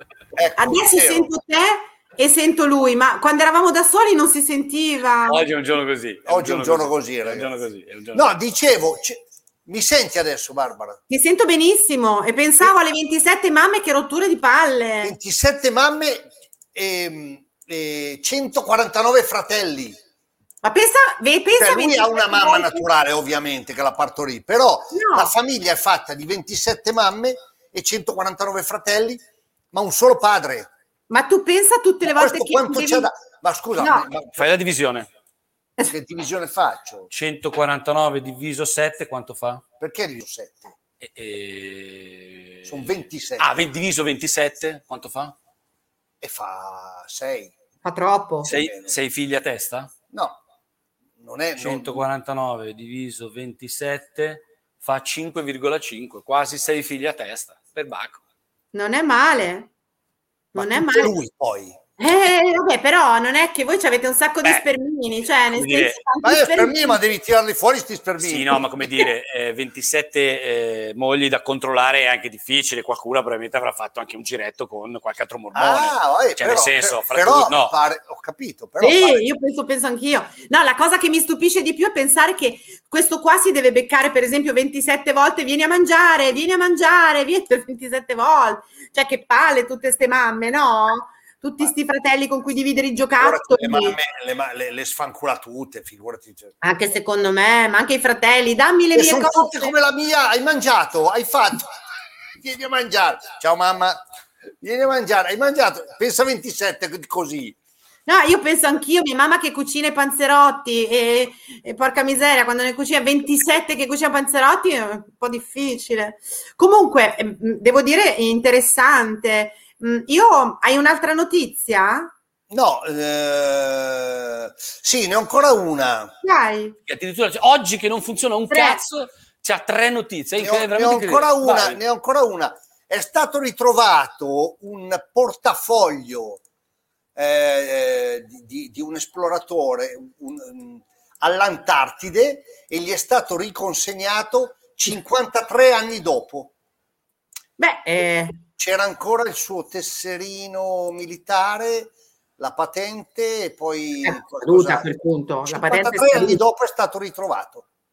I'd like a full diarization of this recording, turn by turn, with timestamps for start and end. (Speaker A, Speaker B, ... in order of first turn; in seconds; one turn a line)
Speaker A: 0.3-1.3
Speaker B: 0.6-5.4
Speaker C: 5.2-8.3
Speaker A: 6.2-7.5
Speaker A: 8.1-11.0
Speaker B: 11.1-15.2
Speaker A: 15.0-20.0
Speaker B: 20.6-22.8
Speaker A: 21.6-29.2
Speaker B: 24.9-25.3
Speaker A: 29.7-30.7
Speaker B: 31.1-33.1
Speaker A: 32.0-34.5
Speaker B: 33.8-34.0
Speaker C: 34.4-35.1
Speaker A: 35.8-37.1
Speaker C: 37.1-39.6
Speaker A: 39.8-40.7
Speaker C: 41.0-42.7
Speaker A: 42.6-43.5
Speaker C: 43.4-45.3
Speaker A: 46.2-47.5
Speaker B: 47.8-48.5
Speaker C: 48.4-49.9
Speaker A: 48.5-48.9
Speaker A: 50.1-50.4
Speaker A: 51.2-52.0
Speaker C: 51.6-58.2
Speaker B: 58.7-59.7
Speaker B: 60.5-61.1
Speaker A: 60.5-61.8
Speaker B: 62.0-67.0
Speaker C: 65.5-66.0
Speaker A: 66.2-68.7
Speaker C: 68.2-77.7
Speaker A: 75.5-79.2
Speaker B: 78.8-94.0
Speaker A: 93.2-96.5
Speaker B: 96.6-99.7
Speaker A: 98.9-101.7
Speaker A: 102.4-104.0
Speaker A: 104.6-107.5
Speaker B: 108.0-122.1
Speaker A: 122.5-126.1
Speaker B: 126.2-126.8
Speaker C: 126.9-131.8
Speaker B: 128.5-128.8
Speaker A: 130.4-136.4
Speaker A: 137.2-146.5
Speaker B: 147.6-148.4
Speaker A: 148.6-154.9
Speaker B: 154.0-156.4
Speaker A: 155.5-157.7